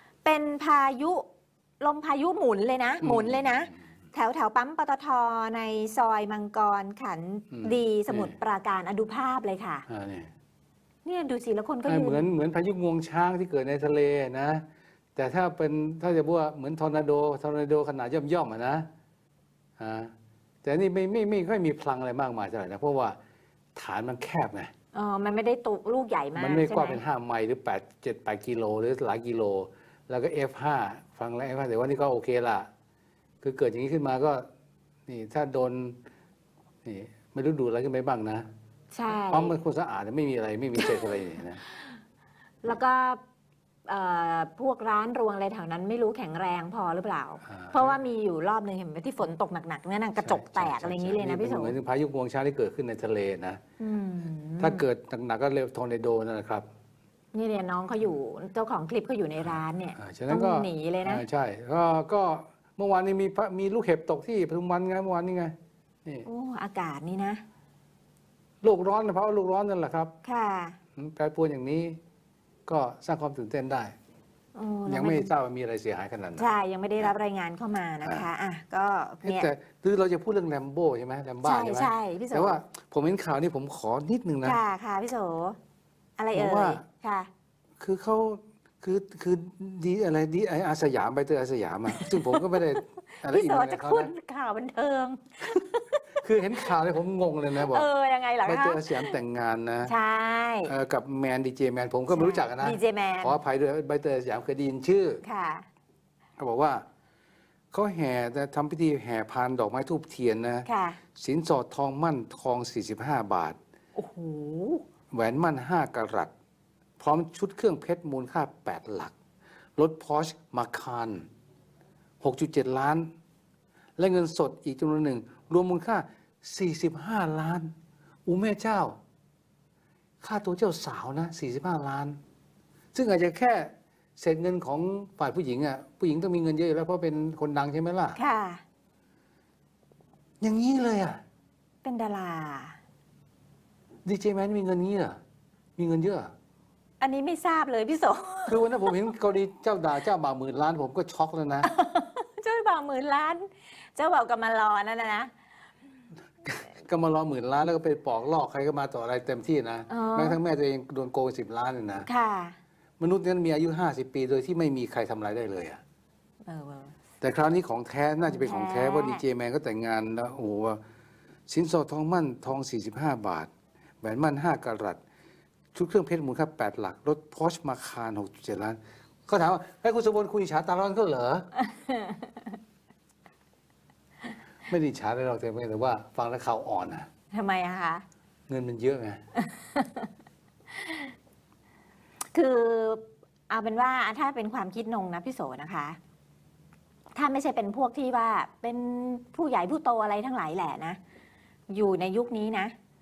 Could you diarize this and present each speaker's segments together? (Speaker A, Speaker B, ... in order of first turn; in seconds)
Speaker A: 0.2-1.2, 1.8-9.9, 11.1-12.2, 24.9-27.0, 38.9-39.6, 40.8-42.0, 42.6-43.2, 43.9-51.8, 53.8-54.8, 57.3-61.2, 66.2-67.4, 70.2-70.8, 74.5-75.3, 76.4-79.5, 81.4-82.6, 84.4-85.6, 86.2-87.3, 91.9-96.7, 97.6-99.2, 99.9-100.7, 102.1-103.4, 105.2-105.7, 110.7-111.0, 114.0-114.8, 138.2-138.6, 141.8-142.8, 147.0-148.9, 151.6-155.3, 159.9-160.4, 162.1-162.6, 166.5-166.9, 168.3-169.2, 181.6-182.6, 187.3-188.1, 189.4-190.1, 190.7-191.1, 192.3-196.0, 197.2-201.0, 201.7-202.7
Speaker B: 3.0-3.8, 7.5-8.4, 9.9-10.3, 11.9-14.7, 15.2-18.9, 19.8-20.1, 20.6-23.2, 23.8-24.7, 26.4-32.7, 33.4-34.5, 35.1-36.0, 36.9-38.5, 39.1-41.6, 47.5-48.0, 50.2-53.6, 54.6-56.7, 59.4-65.5, 68.6-70.1, 71.0-72.0, 72.7-74.0, 74.9-77.1, 79.2-84.6, 86.3-86.8, 87.8-94.1, 96.2-97.9, 98.5-99.9, 100.7-105.2, 106.4-106.8, 107.7-113.6, 115.1-116.3, 117.0-119.1, 119.8-121.3, 122.2-123.1, 124.0-127.7, 128.3-129.0, 130.2-132.2, 132.9-138.2, 140.4-141.2, 144.1-145.2, 145.8-146.3, 148.5-151.7, 156.4-162.1, 163.0-165.8, 167.2-170.8, 171.5-173.5, 174.0-175.0, 175.7-181.5, 184.7-187.1, 188.5-189.2